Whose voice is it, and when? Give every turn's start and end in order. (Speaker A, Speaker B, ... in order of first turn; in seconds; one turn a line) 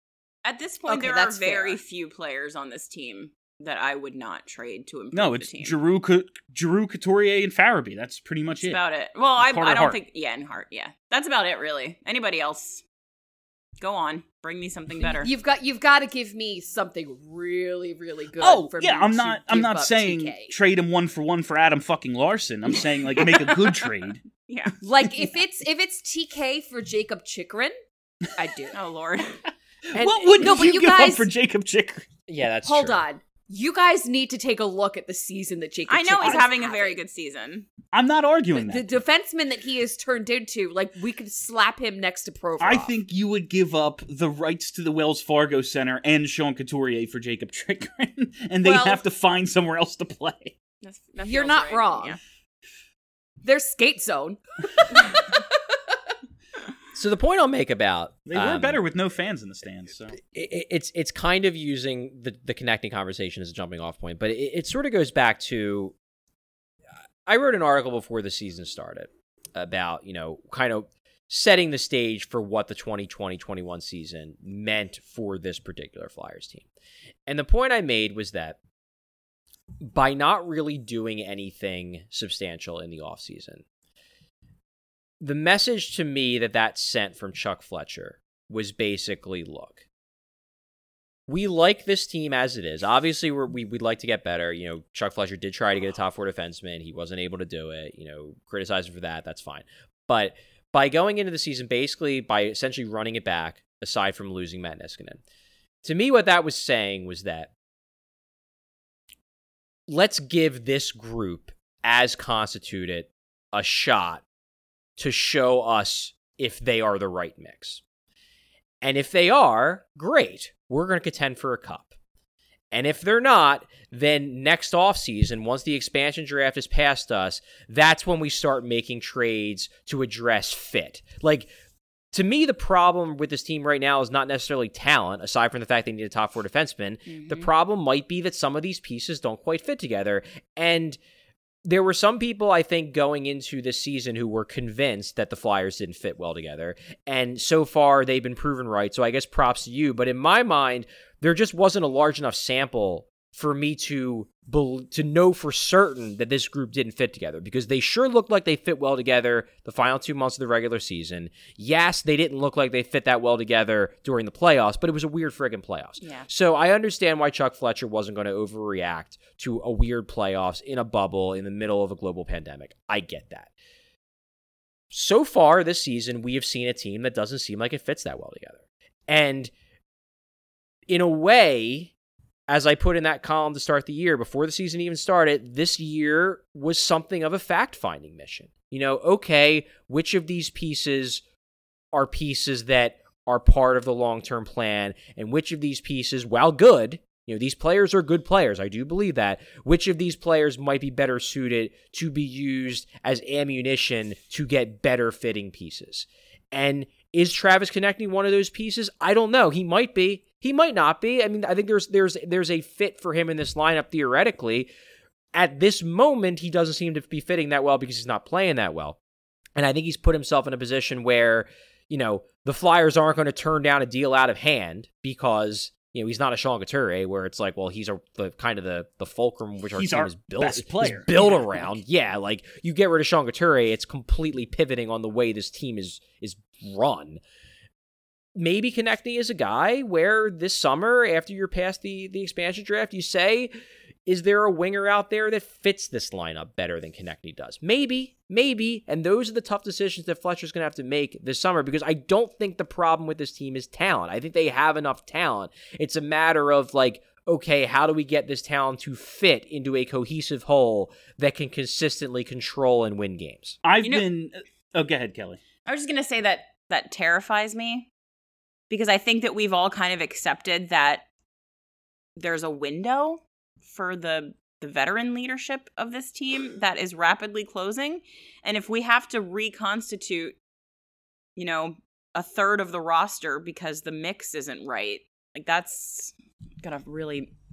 Speaker A: 0.4-5.7
Speaker B: 0.9-1.8
Speaker C: 5.1-8.8
Speaker A: 8.5-12.8
Speaker C: 9.4-10.0
Speaker A: 13.8-15.3
Speaker B: 15.0-20.5
Speaker C: 18.4-24.2
Speaker A: 24.4-24.7
Speaker B: 24.8-27.7
Speaker B: 28.3-28.8
Speaker A: 28.7-29.4
Speaker D: 29.9-30.5
Speaker C: 29.9-32.1
Speaker B: 30.3-31.3
Speaker D: 32.3-33.0
Speaker B: 32.6-37.0
Speaker A: 35.9-37.7
Speaker C: 37.9-38.9
Speaker B: 38.5-42.9
Speaker C: 42.6-50.5
Speaker B: 48.6-49.0
Speaker A: 50.8-52.2
Speaker B: 51.2-52.2
Speaker B: 53.4-55.9
Speaker D: 56.9-58.8
Speaker C: 58.3-60.2
Speaker D: 60.1-65.9
Speaker D: 67.2-76.7
Speaker D: 77.3-78.6
Speaker D: 79.8-83.6
Speaker D: 85.2-89.8
Speaker D: 91.3-105.2
Speaker D: 105.8-107.5
Speaker D: 109.9-114.2
Speaker D: 115.0-117.8
Speaker D: 118.8-121.9
Speaker D: 122.7-131.5
Speaker D: 132.1-141.0
Speaker A: 137.1-137.5
Speaker D: 141.6-173.5
Speaker A: 166.0-166.3
Speaker D: 174.9-179.5
Speaker D: 180.9-181.9
Speaker D: 182.5-191.2
Speaker D: 191.9-214.7
Speaker D: 215.3-219.0
Speaker D: 219.6-237.2
Speaker C: 229.8-231.7
Speaker D: 238.3-243.5
Speaker D: 244.1-263.6
Speaker C: 263.6-265.4
Speaker A: 265.6-267.9
Speaker A: 268.7-271.0
Speaker A: 272.2-280.4
Speaker A: 281.4-287.3